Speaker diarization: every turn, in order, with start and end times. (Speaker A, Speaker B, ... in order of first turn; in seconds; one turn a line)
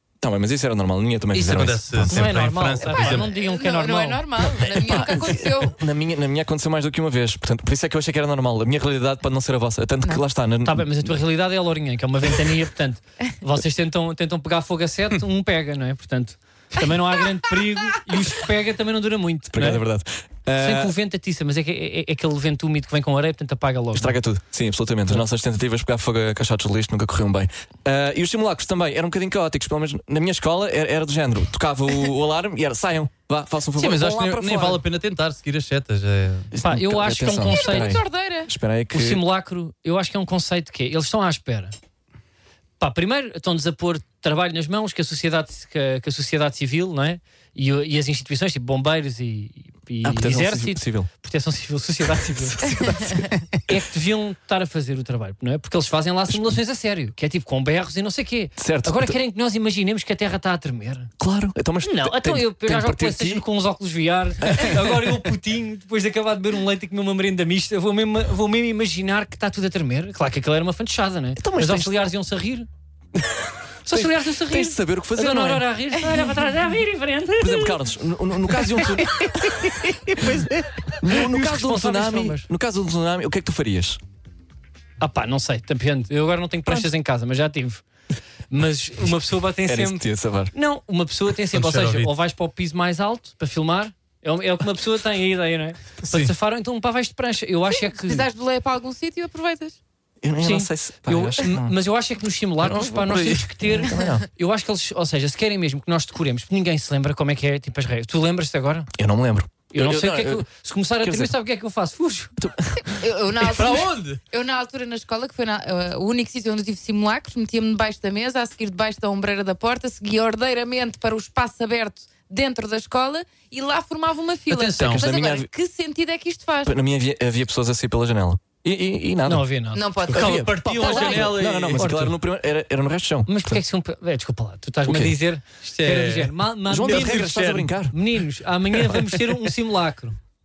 Speaker A: 0.2-2.3
Speaker B: 1.3-3.3
Speaker C: 2.1-4.3
Speaker D: 3.1-5.8
Speaker A: 4.4-11.1
Speaker C: 10.7-19.9
Speaker A: 19.5-20.9
Speaker C: 20.6-24.2
Speaker A: 23.9-34.8
Speaker B: 33.8-36.5
Speaker A: 36.5-39.2
Speaker C: 36.6-38.0
Speaker D: 37.5-38.5
Speaker C: 38.9-41.7
Speaker C: 42.8-61.1
Speaker A: 50.0-51.1
Speaker A: 52.7-53.2
Speaker A: 58.6-59.2
Speaker A: 61.2-63.4
Speaker C: 61.9-72.7
Speaker A: 64.4-65.1
Speaker A: 71.4-71.9
Speaker C: 73.8-77.8
Speaker A: 73.9-75.7
Speaker A: 77.4-84.0
Speaker C: 78.5-82.5
Speaker C: 85.0-87.8
Speaker C: 88.5-98.3
Speaker A: 89.7-90.5
Speaker B: 91.5-92.1
Speaker D: 97.7-99.8
Speaker A: 100.2-101.7
Speaker C: 100.4-108.9
Speaker B: 102.6-103.5
Speaker A: 103.7-104.3
Speaker A: 109.0-110.5
Speaker C: 109.7-112.3
Speaker A: 111.0-111.3
Speaker A: 112.4-112.9
Speaker D: 112.9-126.7
Speaker B: 113.4-114.2
Speaker B: 124.5-125.1
Speaker A: 124.8-125.5
Speaker A: 126.7-129.5
Speaker C: 129.3-130.1
Speaker D: 129.7-131.3
Speaker B: 130.1-131.9
Speaker A: 130.1-133.6
Speaker C: 131.8-132.2
Speaker C: 133.3-137.4
Speaker A: 134.9-135.2
Speaker B: 135.7-137.7
Speaker A: 136.7-138.0
Speaker C: 137.9-140.2